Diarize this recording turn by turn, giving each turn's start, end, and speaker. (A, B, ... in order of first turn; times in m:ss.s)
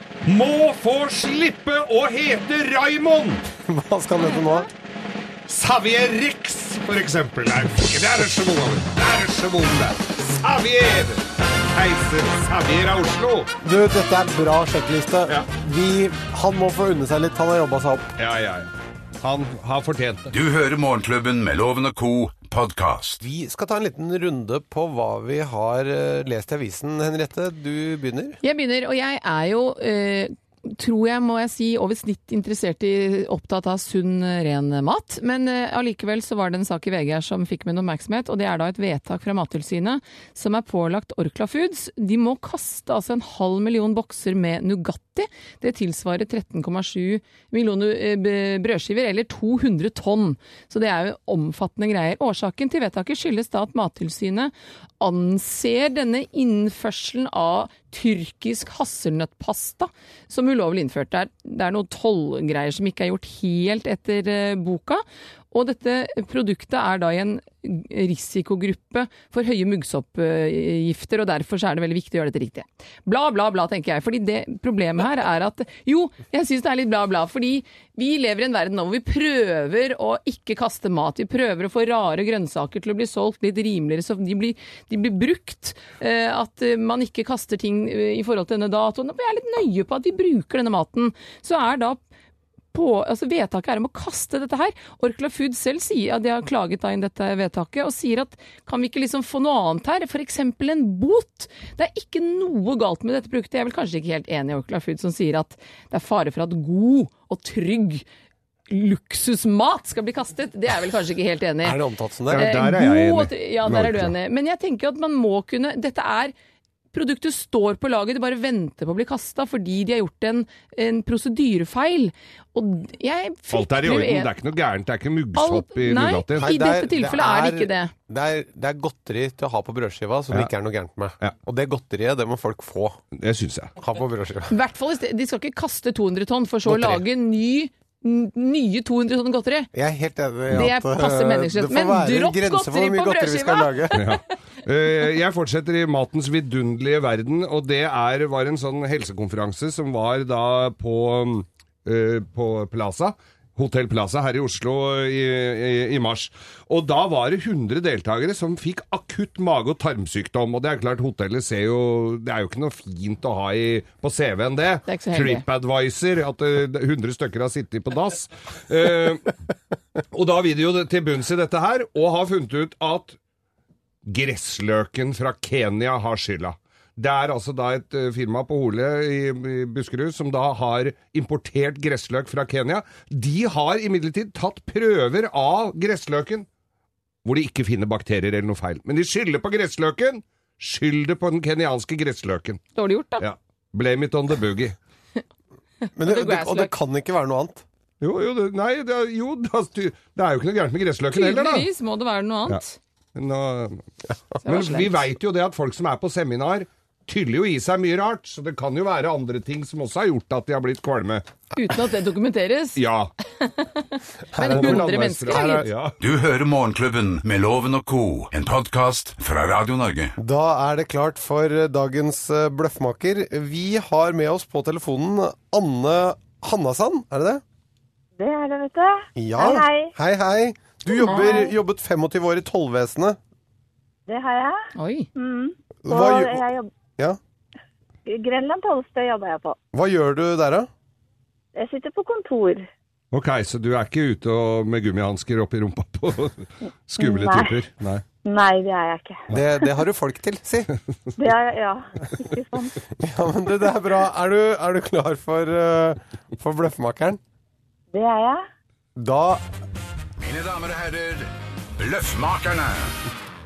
0:00.2-0:03.4 A
0:03.5-0:04.7 B
0:05.5-0:13.5 A
0:13.6-0:18.1 B
0:18.2-0:18.7 A
0:19.2-0:20.3 A
0:20.3-0:23.2 C
0:23.2-0:28.4 B
0:28.4-1:32.0 D
1:32.7-1:48.0 D
1:48.7-1:51.8 D
1:51.6-1:52.5 B
1:52.3-1:54.1 A
1:52.3-1:56.3 D
1:56.9-2:04.3 D
2:03.5-2:06.5 A
2:05.4-2:07.9 D
2:06.4-2:13.0 B
2:13.2-2:13.7 A
2:13.8-2:14.6 B
2:14.5-2:19.7 D
2:19.7-2:24.0 B
2:20.5-2:24.0 D
2:23.9-2:49.3 A
2:44.8-2:45.4 D
2:50.1-2:53.2 A
2:54.0-3:06.4 A
3:07.2-3:12.6 A
3:12.8-3:13.2 D
3:13.2-3:14.8 A
3:16.0-3:17.6 B
3:16.0-3:16.7 D
3:18.0-3:21.7 A
3:21.1-3:22.8 D
3:23.2-3:23.8 A
3:24.4-3:25.0 D
3:24.4-3:31.2 A
3:31.5-3:32.8 D
3:32.8-3:33.1 A
3:33.4-3:35.6 D
3:34.3-3:35.7 B
3:34.4-3:36.0 A
3:36.0-3:40.1 C
3:40.2-3:47.4 B
3:48.2-3:49.9 E
3:49.2-3:53.2 B
3:51.0-3:51.5 D
3:54.1-3:56.7 E
3:54.7-3:55.1 D
3:55.8-3:56.4 B
3:58.0-3:59.6 E
3:59.7-4:00.7 B
4:01.5-4:02.7 E
4:03.1-4:08.0 A
4:07.0-4:07.5 E
4:08.2-4:09.2 E
4:09.3-4:10.7 B
4:11.2-4:12.7 E
4:13.0-4:17.2 B
4:17.9-4:18.4 E
4:19.0-4:19.4 B
4:20.2-4:23.0 C